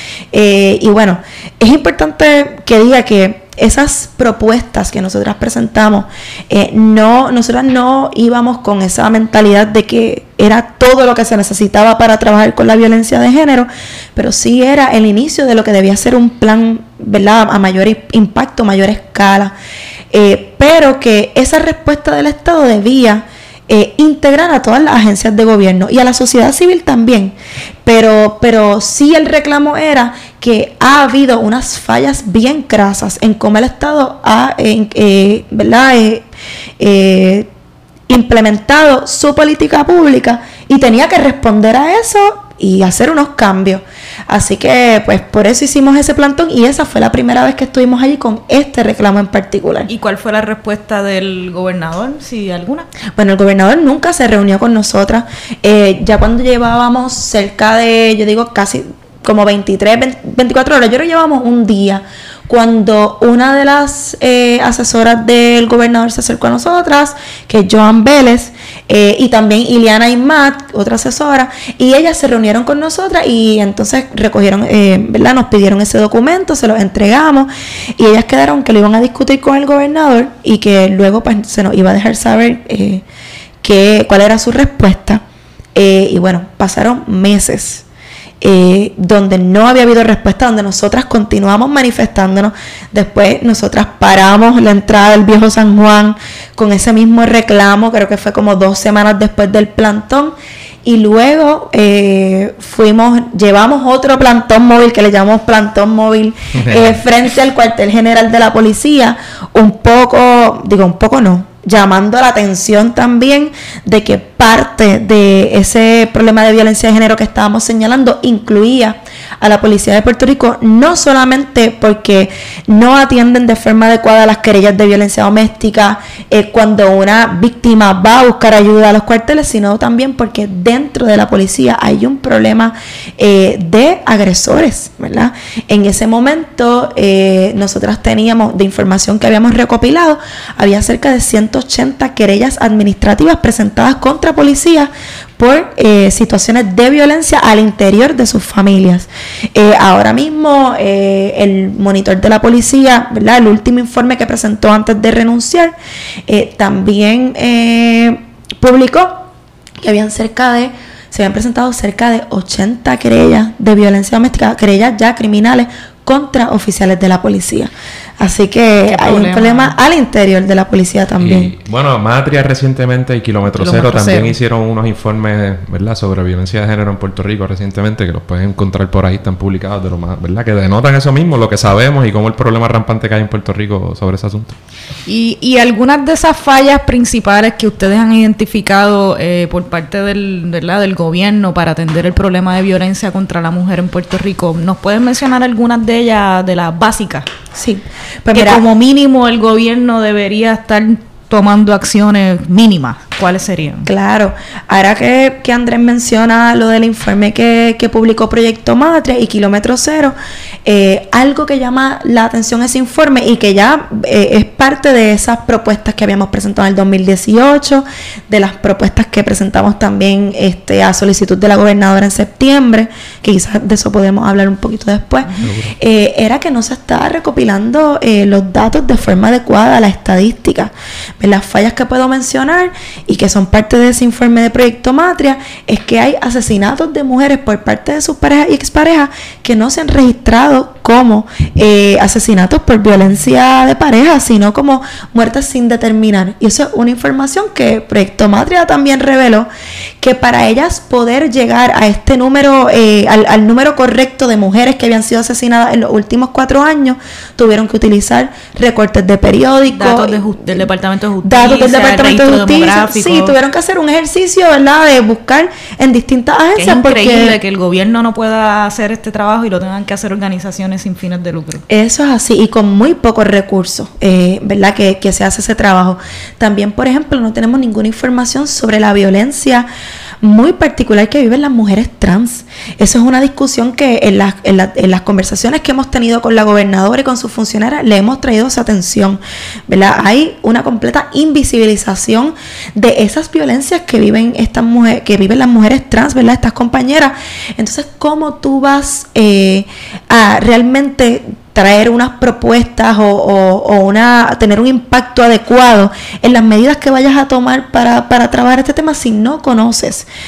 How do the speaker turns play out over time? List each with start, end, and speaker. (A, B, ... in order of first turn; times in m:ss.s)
0:00.3-0:19.5 A
0:20.1-0:36.2 A
0:36.8-0:37.5 A
0:38.1-0:49.9 A
0:49.9-0:52.9 B
0:53.2-1:23.0 A
1:23.6-1:25.2 A
1:25.8-1:27.8 A
1:28.4-2:35.8 A
1:46.6-1:47.0 C
2:36.3-2:39.3 A
2:39.8-2:51.5 A
2:48.9-2:49.8 B
2:51.2-3:04.6 C
2:53.5-2:54.3 B
3:05.1-3:17.3 B
3:17.5-3:18.6 A
3:18.3-3:23.9 B
3:23.9-4:09.5 A
3:45.5-3:45.7 C
4:10.0-4:20.6 A
4:19.7-4:23.4 B
4:21.2-4:27.4 A
4:26.6-4:31.6 B
4:31.7-4:39.7 A
4:40.2-5:10.1 A